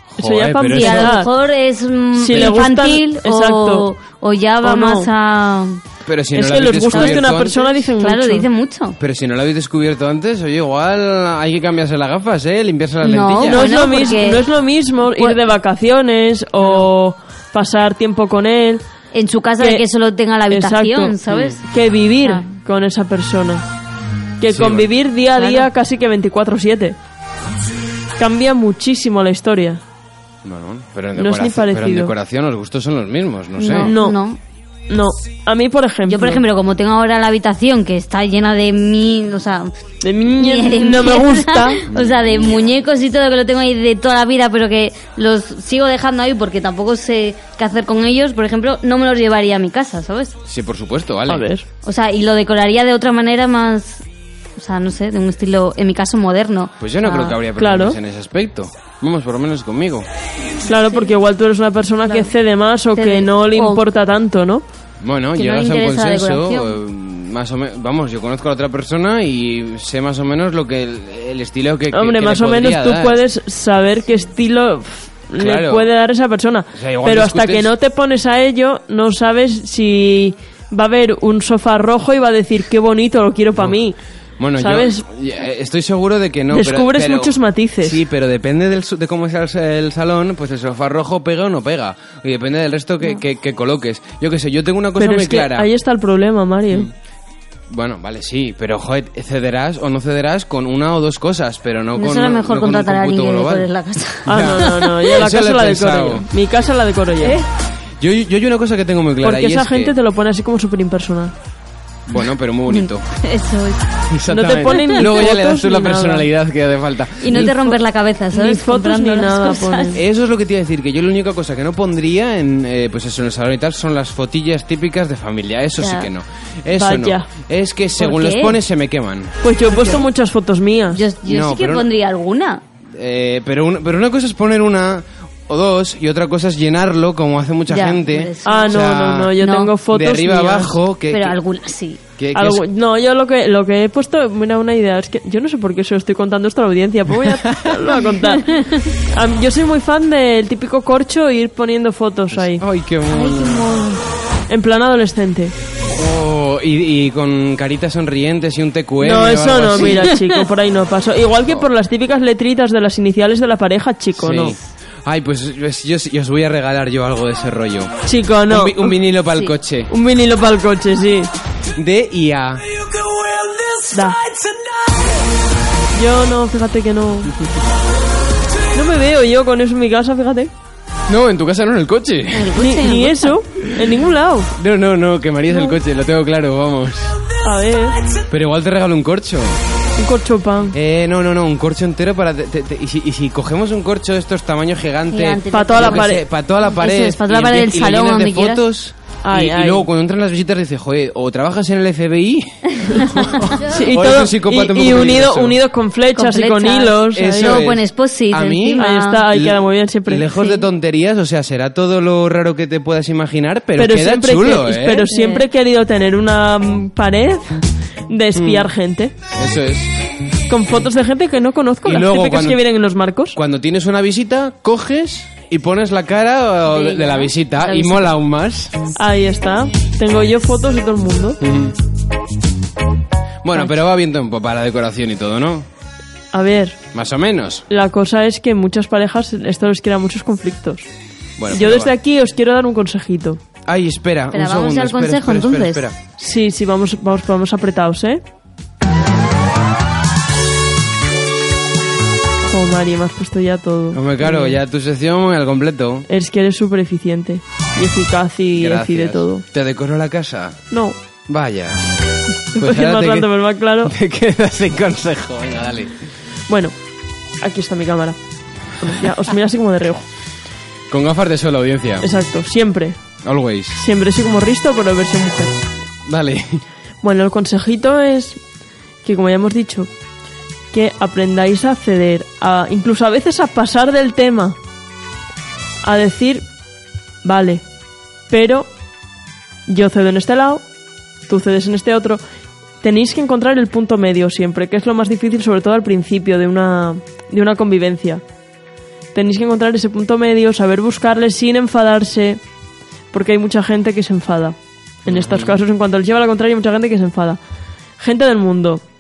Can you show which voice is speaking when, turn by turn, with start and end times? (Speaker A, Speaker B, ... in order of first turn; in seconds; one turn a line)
Speaker A: 0.2-1.2
Speaker B: 0.2-1.3
Speaker C: 0.7-5.8
Speaker B: 2.2-3.9
Speaker B: 4.6-5.1
Speaker A: 6.0-7.7
Speaker B: 6.3-8.5
Speaker C: 6.9-7.3
Speaker C: 8.0-9.0
Speaker A: 9.0-13.7
Speaker C: 13.0-14.4
Speaker B: 13.5-18.8
Speaker C: 15.1-15.4
Speaker C: 16.6-16.9
Speaker C: 19.1-21.6
Speaker B: 19.6-19.9
Speaker B: 20.5-23.6
Speaker B: 24.4-27.0
Speaker A: 24.5-24.9
Speaker C: 25.4-25.7
Speaker B: 28.2-29.8
Speaker A: 30.4-33.9
Speaker B: 31.2-32.1
Speaker C: 33.6-34.4
Speaker B: 33.8-34.2
Speaker B: 34.9-36.4
Speaker C: 36.1-39.7
Speaker B: 40.0-41.9
Speaker C: 40.3-50.4
Speaker A: 41.9-42.3
Speaker A: 50.5-51.5
Speaker B: 51.3-51.6
Speaker C: 51.8-54.0
Speaker C: 54.6-57.3
Speaker A: 56.8-60.1
Speaker B: 57.6-58.0
Speaker B: 60.7-64.6
Speaker C: 60.7-61.1
Speaker C: 62.1-62.3
Speaker C: 63.0-63.8
Speaker A: 65.0-73.2
Speaker C: 65.3-66.8
Speaker B: 71.9-84.0
Speaker A: 75.4-75.9
Speaker A: 76.7-77.7
Speaker A: 84.4-95.7
Speaker B: 84.6-85.0
Speaker B: 86.5-88.0
Speaker B: 95.0-96.9
Speaker A: 97.7-103.7
Speaker C: 102.0-104.9
Speaker A: 104.2-106.3
Speaker B: 104.3-107.4
Speaker A: 108.0-109.9
Speaker B: 109.2-111.3
Speaker A: 112.1-113.0
Speaker C: 112.7-113.9
Speaker A: 114.1-117.5
Speaker B: 114.3-116.3
Speaker C: 114.8-115.1
Speaker C: 117.2-120.0
Speaker B: 117.3-117.7
Speaker B: 118.3-120.0
Speaker A: 119.9-129.3
Speaker C: 125.8-126.1
Speaker B: 126.8-127.3
Speaker C: 128.0-128.6
Speaker B: 129.4-131.0
Speaker C: 130.9-132.6
Speaker A: 131.2-131.9
Speaker A: 132.9-139.3
Speaker C: 137.7-139.7
Speaker B: 138.4-140.8
Speaker A: 139.9-141.4
Speaker C: 141.1-142.0
Speaker A: 142.2-142.6
Speaker B: 142.3-152.6
Speaker A: 147.3-147.8
Speaker C: 148.4-148.9
Speaker A: 152.3-153.7
Speaker C: 153.1-154.0
Speaker B: 154.5-155.5
Speaker A: 155.9-160.1
Speaker B: 159.0-164.6
Speaker C: 159.9-160.3
Speaker A: 164.2-167.9
Speaker B: 168.1-169.0
Speaker A: 168.5-169.9
Speaker B: 169.9-171.3
Speaker A: 171.8-172.6
Speaker B: 173.9-174.3
Speaker B: 175.9-177.3
Speaker B: 178.7-180.5
Speaker A: 181.1-182.6
Speaker C: 182.3-183.4
Speaker B: 182.6-184.5
Speaker A: 184.6-187.2
Speaker B: 187.4-188.0
Speaker A: 188.3-189.6
Speaker B: 190.0-190.7
Speaker A: 190.7-205.6
Speaker C: 195.1-198.6
Speaker B: 195.5-196.2
Speaker B: 199.2-199.9
Speaker C: 202.8-203.5
Speaker B: 203.7-207.7
Speaker C: 206.2-209.3
Speaker A: 207.1-215.1
Speaker B: 208.8-210.3
Speaker C: 210.3-210.7
Speaker B: 213.8-219.1
Speaker C: 215.1-215.5
Speaker A: 218.3-218.7
Speaker A: 219.3-219.9
Speaker B: 220.5-223.4
Speaker A: 221.8-222.6
Speaker A: 223.3-228.7
Speaker C: 226.7-228.1
Speaker B: 229.0-231.4
Speaker A: 231.4-231.8
Speaker A: 233.4-235.7
Speaker B: 236.3-236.8
Speaker A: 236.9-237.7
Speaker B: 237.7-240.9
Speaker A: 241.4-241.9
Speaker B: 241.5-243.4
Speaker A: 243.7-246.0
Speaker C: 244.3-245.8
Speaker B: 246.2-248.2
Speaker B: 252.5-254.6
Speaker A: 253.9-256.1
Speaker B: 256.1-259.4
Speaker A: 258.6-260.6
Speaker B: 260.7-261.0
Speaker A: 261.3-261.8
Speaker A: 262.5-263.3
Speaker B: 262.5-263.9
Speaker A: 263.8-266.0
Speaker B: 266.5-266.7
Speaker B: 267.4-268.2
Speaker B: 268.8-270.1
Speaker A: 270.9-272.1
Speaker B: 272.0-273.0
Speaker A: 273.2-273.8
Speaker B: 273.8-275.6
Speaker A: 276.1-276.6
Speaker B: 277.0-278.4
Speaker B: 279.0-279.9
Speaker B: 280.7-284.6
Speaker B: 285.8-286.4
Speaker B: 287.2-287.6
Speaker B: 288.3-288.7
Speaker B: 289.7-290.6
Speaker B: 291.3-292.2
Speaker B: 292.8-298.2
Speaker B: 299.1-302.4
Speaker B: 303.1-304.6
Speaker A: 305.1-305.6
Speaker B: 305.1-307.4
Speaker B: 308.0-308.8